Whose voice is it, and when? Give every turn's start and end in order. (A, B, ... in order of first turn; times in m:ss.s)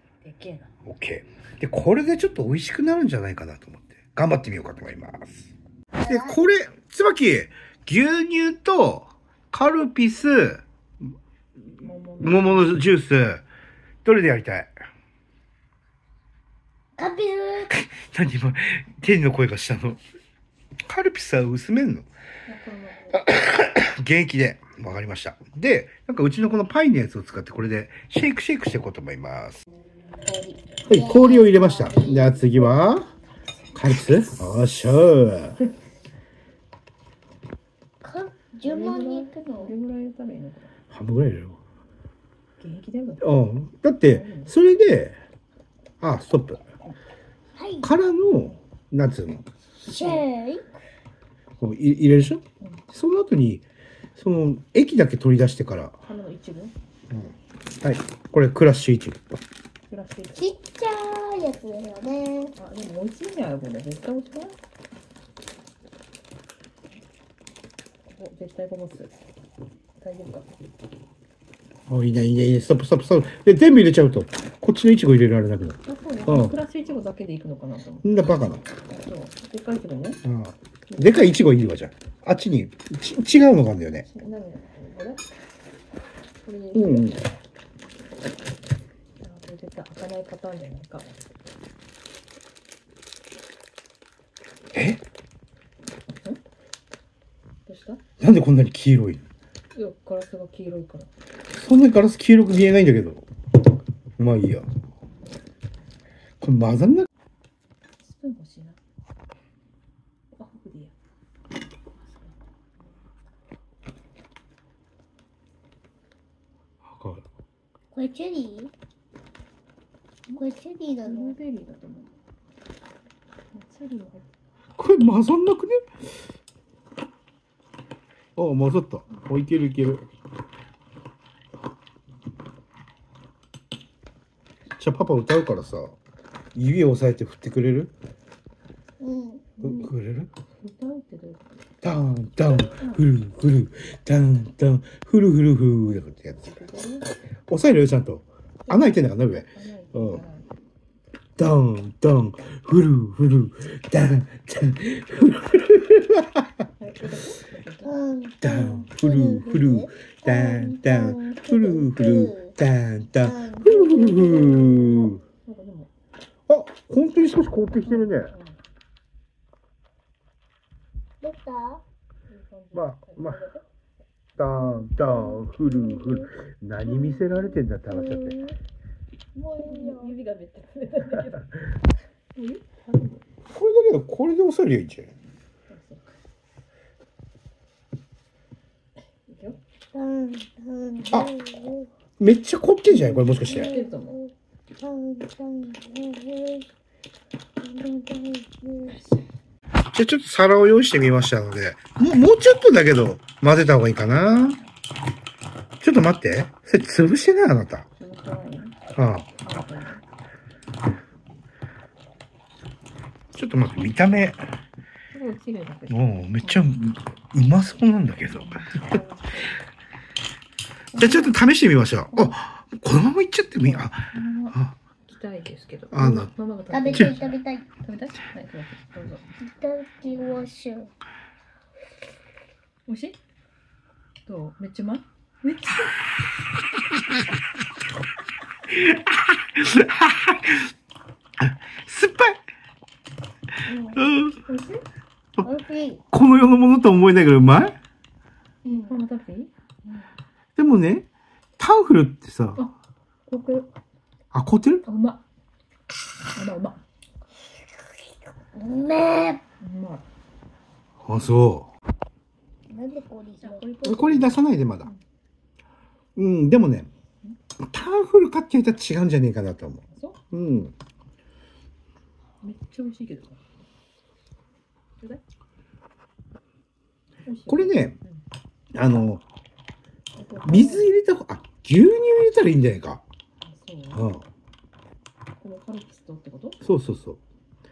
0:00.2-0:00.7 A
0:00.8-0:05.4 B
0:05.9-0:06.4 C
0:06.0-0:10.6 B
0:11.8-0:12.8 A
0:12.2-0:13.4 B
0:14.0-0:14.7 B
0:17.0-0:17.7 C
0:17.7-0:20.0 B
0:20.8-0:22.0 B
0:22.5-0:23.2 A
0:23.2-0:29.6 B
0:30.2-0:32.7 C
0:30.9-0:33.1 B
0:33.7-0:35.6 B
0:38.0-0:39.7 C
0:38.6-0:40.7 A
0:40.9-0:41.6 B
0:42.6-0:43.2 A
0:43.2-0:45.2 B
0:44.0-0:44.5 A
0:46.0-0:46.6 B
0:47.6-0:47.9 C
0:47.8-0:49.4 B
0:49.8-0:50.6 C
0:49.9-0:50.2 A
0:51.6-0:53.6 B
0:54.2-0:56.0 B
0:56.0-0:56.7 A
0:57.1-0:59.4 B
0:59.9-1:00.4 A
1:00.3-1:02.5 C
1:02.6-1:04.6 A
1:08.1-1:09.1 A
1:10.0-1:10.4 A
1:11.9-1:16.6 B
1:15.8-1:18.2 A
1:18.0-1:18.6 B
1:18.9-1:20.2 A
1:20.2-1:24.0 B
1:20.9-1:21.3 A
1:24.0-1:25.2 A
1:26.4-1:27.2 A
1:26.7-1:27.2 B
1:29.2-1:31.1 A
1:34.7-1:35.0 B
1:37.7-1:38.0 A
1:38.2-1:39.2 B
1:39.7-1:41.1 A
1:41.5-1:43.2 B
1:44.2-1:44.7 B
1:46.4-1:47.1 B
1:48.0-1:48.8 A
1:50.4-1:50.9 A
1:52.0-1:52.9 A
1:56.8-1:57.2 B
1:57.9-1:58.7 C
2:00.3-2:01.3 C
2:01.0-2:02.1 A
2:03.5-2:04.2 A
2:04.8-2:05.8 B
2:08.4-2:10.0 B
2:14.8-2:15.9 B
2:16.5-2:17.9 B
2:19.0-2:19.4 C
2:19.6-2:19.9 A
2:19.6-2:20.3 B
2:20.6-2:21.4 A
2:21.8-2:26.5 B
2:22.8-2:23.0 A
2:26.4-2:27.0 A
2:27.5-2:30.2 B
2:29.4-2:30.5 A
2:31.4-2:36.5 B
2:36.8-2:37.9 A
2:37.8-2:42.6 C
2:38.4-2:45.2 B
2:43.2-2:44.4 C
2:44.0-2:45.9 A
2:46.5-2:48.3 B
2:47.8-2:48.6 A
2:51.2-2:51.8 C
2:52.3-2:53.6 A
2:52.7-2:53.4 B
2:54.4-2:58.4 B
2:54.9-2:56.3 C
2:56.8-2:57.2 C
2:57.8-2:58.6 C
2:59.3-3:00.1 C
2:59.6-3:01.5 A
3:02.3-3:03.2 A
3:03.5-3:05.1 B
3:05.7-3:06.0 A
3:09.3-3:09.6 A
3:09.9-3:11.9 C
3:12.2-3:13.7 B
3:12.9-3:14.2 A
3:13.3-3:16.7 C
3:17.6-3:19.0 C
3:19.9-3:24.6 B
3:25.8-3:27.8 B
3:28.0-3:28.8 A
3:29.0-3:29.3 B
3:29.4-3:30.0 A
3:33.3-3:34.4 B
3:35.1-3:36.8 A
3:35.9-3:38.8 B
3:38.2-3:39.6 A
3:40.9-3:41.4 A
3:40.9-3:44.7 B
3:43.6-3:49.2 A
3:45.9-3:46.3 B
3:46.7-3:47.6 C
3:46.9-3:47.2 B
3:49.4-3:50.9 C
3:52.9-3:53.2 A
3:54.2-3:55.9 A
3:58.7-4:00.6 B
4:01.4-4:02.4 B
4:03.6-4:04.0 C
4:04.0-4:04.4 B
4:04.4-4:04.8 A
4:05.4-4:06.0 C
4:06.1-4:07.8 B
4:08.6-4:09.0 C
4:08.8-4:10.0 A
4:10.6-4:11.1 B
4:11.6-4:12.6 B
4:13.3-4:13.7 A
4:14.3-4:14.8 B
4:14.8-4:15.2 A
4:16.3-4:16.8 A
4:18.5-4:19.4 C
4:19.6-4:20.0 A
4:21.0-4:21.7 B
4:22.7-4:23.7 C
4:23.4-4:25.0 A
4:23.8-4:24.9 B
4:26.2-4:26.9 B
4:27.6-4:29.8 B
4:29.9-4:30.2 A
4:30.3-4:30.7 B
4:32.4-4:33.4 A
4:37.2-4:38.2 A
4:37.5-4:38.0 B
4:38.7-4:39.2 B
4:40.2-4:40.9 A
4:40.4-4:43.0 B
4:43.4-4:44.1 A
4:43.9-4:44.2 B
4:45.4-4:46.6 A
4:46.6-4:47.2 B